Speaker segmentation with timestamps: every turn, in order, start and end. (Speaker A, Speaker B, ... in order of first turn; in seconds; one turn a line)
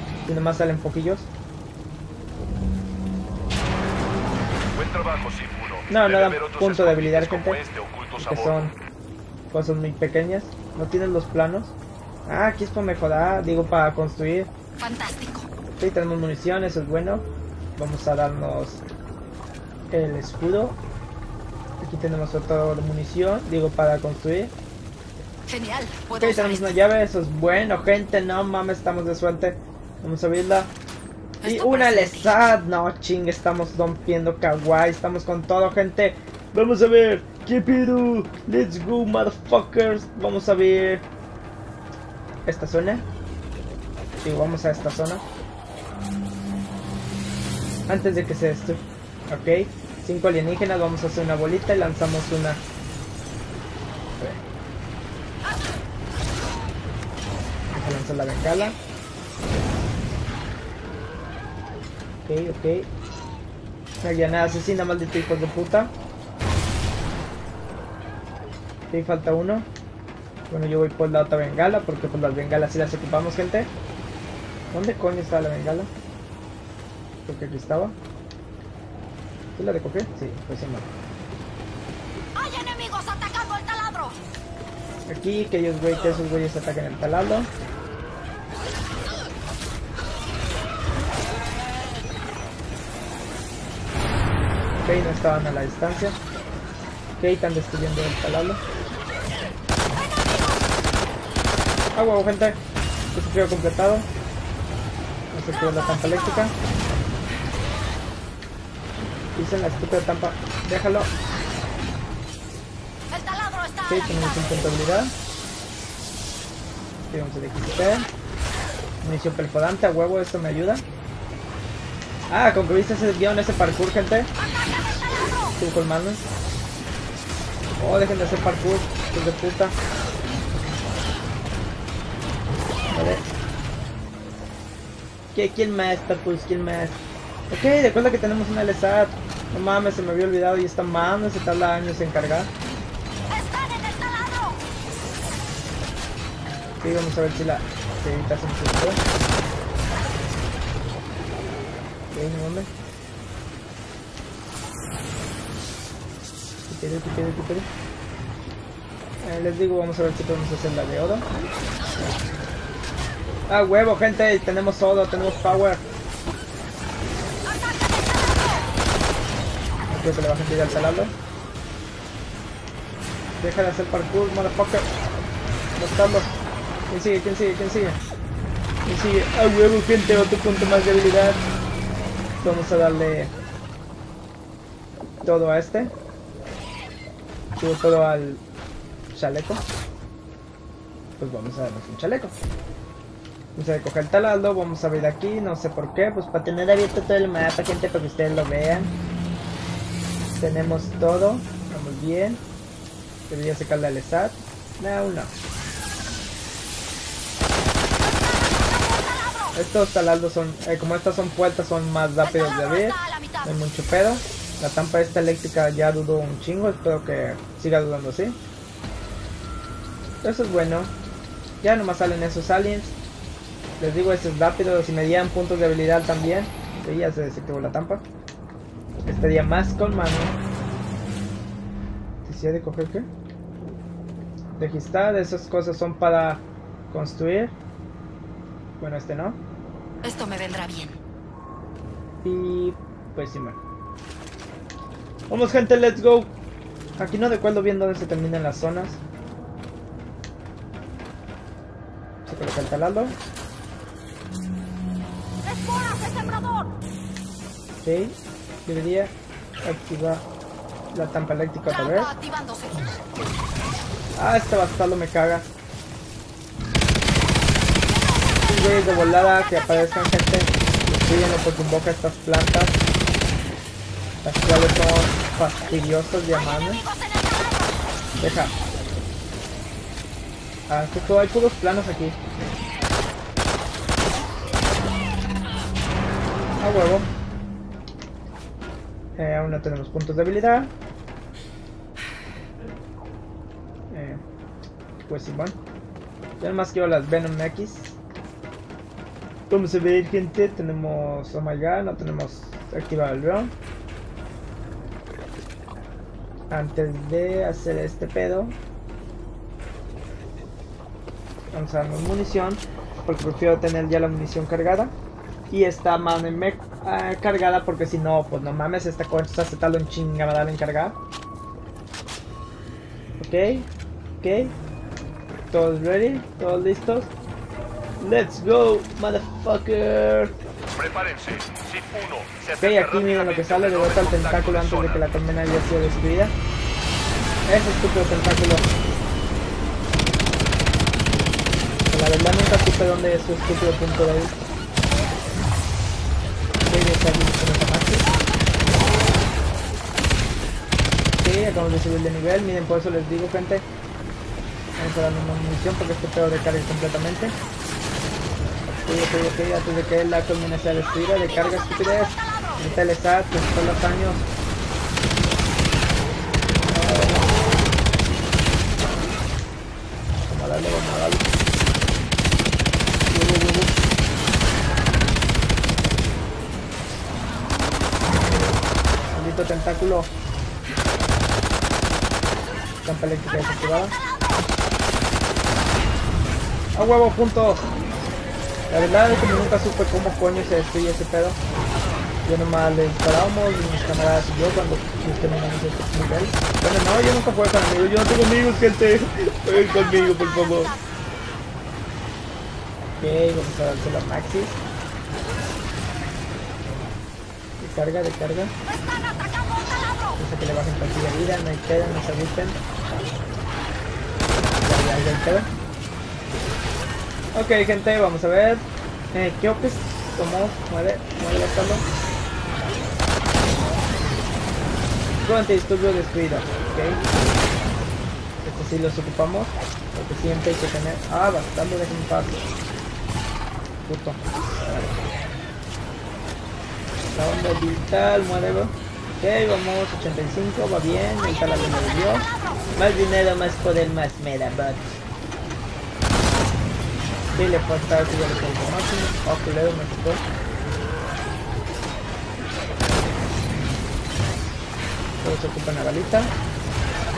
Speaker A: 0.2-1.3
Speaker B: 4.7-8.6
Speaker A: 5.9-7.6
Speaker A: 8.2-8.8
Speaker A: 9.5-14.5
Speaker C: 14.8-15.5
Speaker A: 15.8-18.9
Speaker A: 19.9-20.8
Speaker A: 21.8-24.6
Speaker C: 25.5-26.8
Speaker A: 26.1-30.7
Speaker C: 31.4-32.4
Speaker A: 31.4-41.0
Speaker A: 42.5-43.1
Speaker A: 44.2-45.2
Speaker A: 47.9-52.6
Speaker A: 54.2-54.4
Speaker A: 57.7-58.8
Speaker A: 62.2-62.9
Speaker A: 64.0-65.9
Speaker A: 68.9-69.7
Speaker A: 70.5-73.7
Speaker A: 74.7-75.9
Speaker A: 77.2-78.0
Speaker A: 79.5-80.9
Speaker C: 82.4-84.2
Speaker A: 85.1-87.5
Speaker A: 94.7-96.2
Speaker A: 97.2-98.6
Speaker A: 101.9-102.6
Speaker A: 103.1-104.1
Speaker A: 105.3-106.5
Speaker A: 109.4-111.1
Speaker A: 113.9-115.1
Speaker A: 117.1-118.1
Speaker A: 119.0-120.8
Speaker A: 122.3-124.3
Speaker A: 125.6-126.3
Speaker A: 127.8-129.8
Speaker A: 132.9-133.3
Speaker A: 135.3-142.5
Speaker A: 146.8-149.0
Speaker A: 152.1-152.7
Speaker A: 156.7-157.7
Speaker A: 159.2-161.3
Speaker A: 163.5-165.8
Speaker A: 169.9-171.1
Speaker A: 173.4-174.9
Speaker A: 175.8-178.0
Speaker A: 178.9-181.4
Speaker A: 182.4-183.3
Speaker A: 185.2-185.9
Speaker A: 187.6-188.4
Speaker A: 189.1-189.6
Speaker A: 191.2-192.3
Speaker A: 193.6-198.9
Speaker A: 200.4-202.4
Speaker A: 203.3-205.3
Speaker A: 209.6-218.4
Speaker C: 212.3-213.4
Speaker A: 220.2-220.9
Speaker A: 221.6-223.0
Speaker A: 223.8-228.1
Speaker A: 229.0-230.4
Speaker A: 232.2-233.1
Speaker A: 234.6-237.6
Speaker A: 238.8-239.4
Speaker C: 240.0-241.0
Speaker A: 242.2-243.6
Speaker A: 245.3-246.4
Speaker A: 247.0-249.0
Speaker A: 252.3-253.2
Speaker C: 255.5-256.7
Speaker A: 257.8-260.3
Speaker A: 260.9-262.2
Speaker C: 261.8-263.0
Speaker A: 264.2-265.5
Speaker A: 268.4-272.8
Speaker A: 274.2-276.9
Speaker A: 278.2-278.6
Speaker A: 280.7-282.2
Speaker A: 286.6-287.1
Speaker A: 289.2-290.7
Speaker A: 293.9-294.2
Speaker A: 295.1-295.6
Speaker A: 296.4-298.0
Speaker A: 299.5-303.5
Speaker A: 306.5-308.6
Speaker A: 311.5-314.9
Speaker A: 315.5-321.0
Speaker A: 323.2-323.7
Speaker A: 324.2-324.6
Speaker A: 325.5-327.1
Speaker A: 328.0-330.4
Speaker B: 330.7-335.0
Speaker A: 332.6-336.3
Speaker A: 337.4-338.7
Speaker A: 341.9-344.4
Speaker A: 346.6-348.1
Speaker A: 351.2-353.7
Speaker A: 354.8-357.4
Speaker A: 358.7-364.3
Speaker A: 366.7-367.3
Speaker A: 370.2-371.3
Speaker A: 373.1-373.8
Speaker A: 379.1-380.1
Speaker A: 382.8-383.9
Speaker A: 386.8-387.7
Speaker A: 388.7-391.4
Speaker A: 392.2-400.8
Speaker A: 403.0-404.6
Speaker A: 407.6-408.6
Speaker A: 410.2-412.6
Speaker A: 414.6-415.5
Speaker A: 417.3-421.9
Speaker A: 425.2-427.0
Speaker A: 428.4-432.5
Speaker A: 433.9-434.9
Speaker A: 437.1-445.0
Speaker A: 447.4-450.2
Speaker A: 455.2-456.3